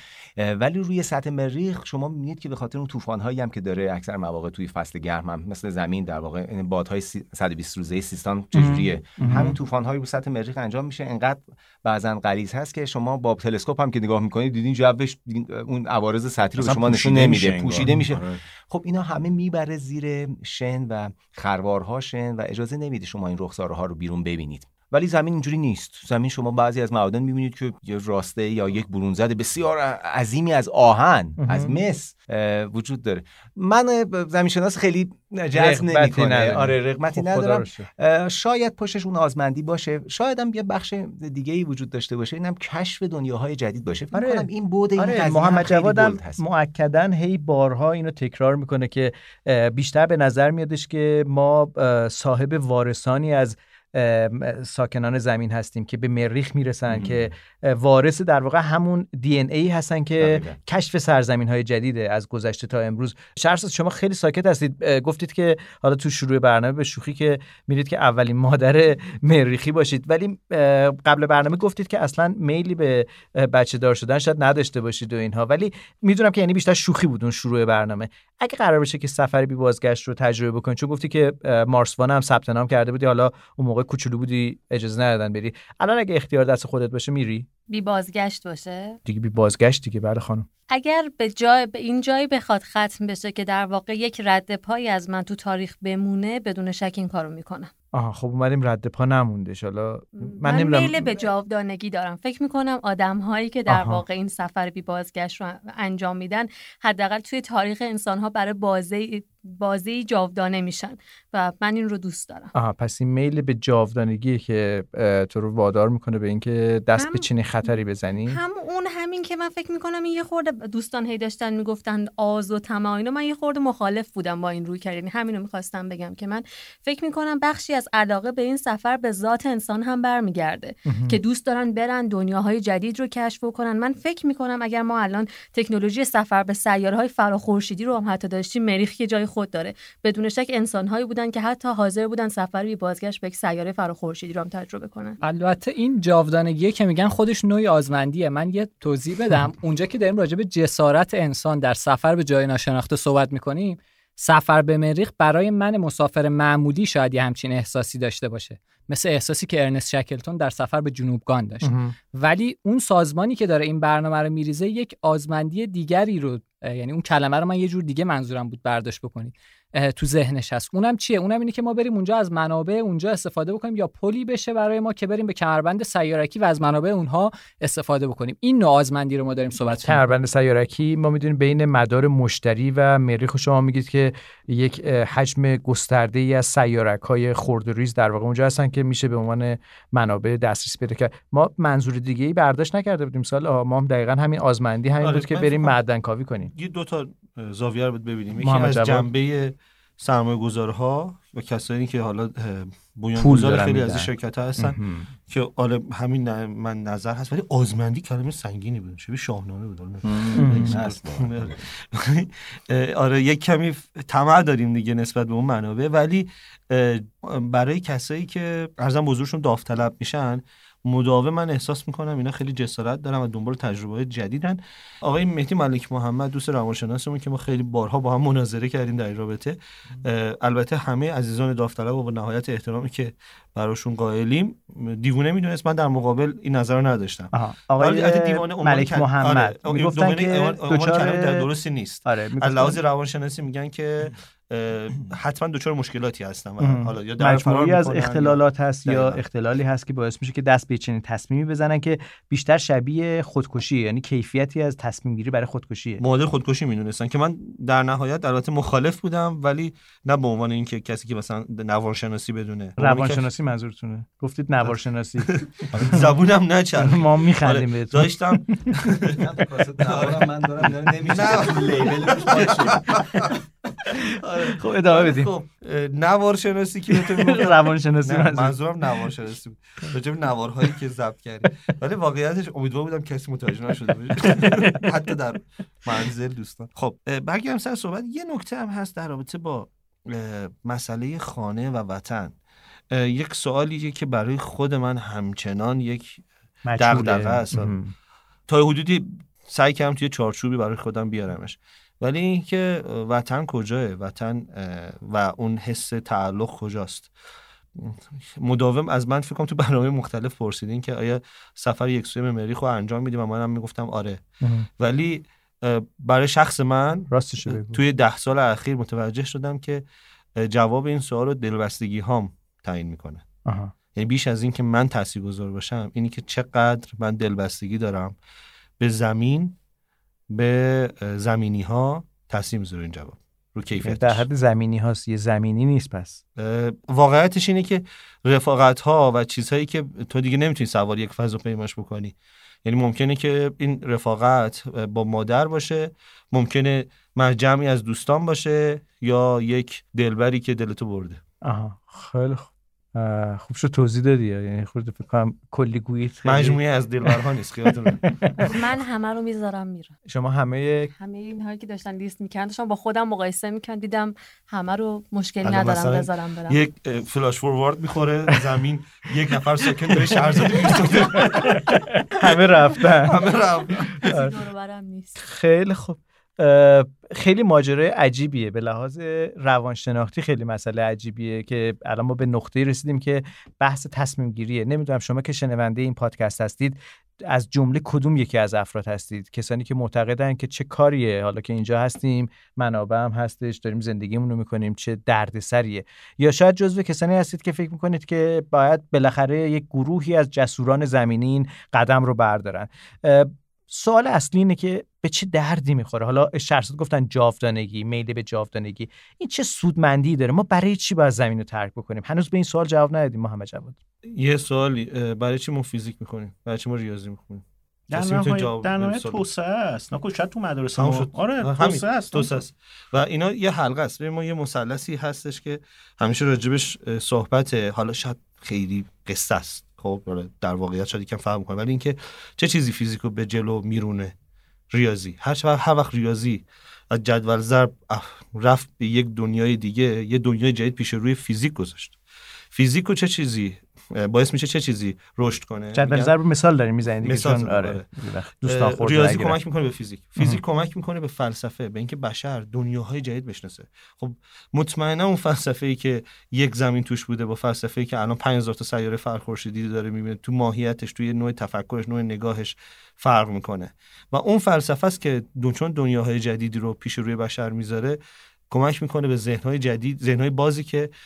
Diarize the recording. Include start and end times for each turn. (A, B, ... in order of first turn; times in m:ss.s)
0:00.4-0:46.4 A
0:08.5-0:09.6 B
0:16.6-0:18.4 C
0:31.4-0:31.8 B
0:35.5-0:37.9 B
0:44.1-1:27.4 B
1:00.2-1:00.6 A
1:27.7-1:29.0 D
1:29.0-1:30.5 B
1:30.7-1:37.7 D
1:37.9-1:41.2 B
1:40.4-1:52.5 D
1:43.7-1:44.0 B
1:52.5-1:58.4 B
1:57.0-2:25.2 D
2:10.8-2:11.2 B
2:25.2-3:00.0 E
2:41.6-2:41.9 B
2:59.7-3:16.5 B
3:15.0-3:15.8 F
3:16.5-4:09.2 F
3:18.4-3:19.1 B
3:23.1-3:25.1 B
3:30.0-3:31.6 A
3:30.3-3:30.8 B
3:57.3-4:01.5 B
4:02.0-4:02.8 B
4:06.6-4:16.0 B
4:16.0-4:23.3 F
4:22.8-4:26.0 B
4:25.2-4:29.2 F
4:26.8-4:28.7 B
4:29.2-4:33.0 A
4:29.8-4:52.3 F
4:33.8-4:35.3 B
4:36.9-4:39.0 B
4:44.3-4:44.8 B
4:52.9-4:56.2 F
4:56.6-4:57.9 B
4:56.8-4:57.8 F
4:58.5-5:07.1 F
5:07.8-5:14.2 F
5:14.4-5:14.7 B
5:14.8-5:19.8 F
5:17.1-5:17.8 B
5:20.4-5:23.2 F
5:23.4-5:23.7 B
5:23.9-5:28.2 F
5:28.8-5:29.6 F
5:30.3-5:34.2 F
5:33.8-5:36.2 B
5:36.4-5:51.2 F
5:51.4-5:57.2 B
5:56.2-5:58.4 F
5:58.0-5:58.5 B
5:58.4-6:00.0 D
6:00.1-6:00.9 B
6:01.0-6:06.6 D
6:05.4-6:14.2 F
6:09.9-6:13.2 B
6:13.8-6:14.3 B
6:13.9-6:15.2 D
6:15.2-6:53.8 B
6:54.1-6:59.2 F
6:57.9-7:02.4 C
7:00.8-7:14.1 F
7:14.7-7:22.0 F
7:22.5-7:26.1 F
7:25.7-7:29.4 B
7:27.0-7:27.9 F
7:28.4-7:48.0 F
7:48.5-7:50.9 F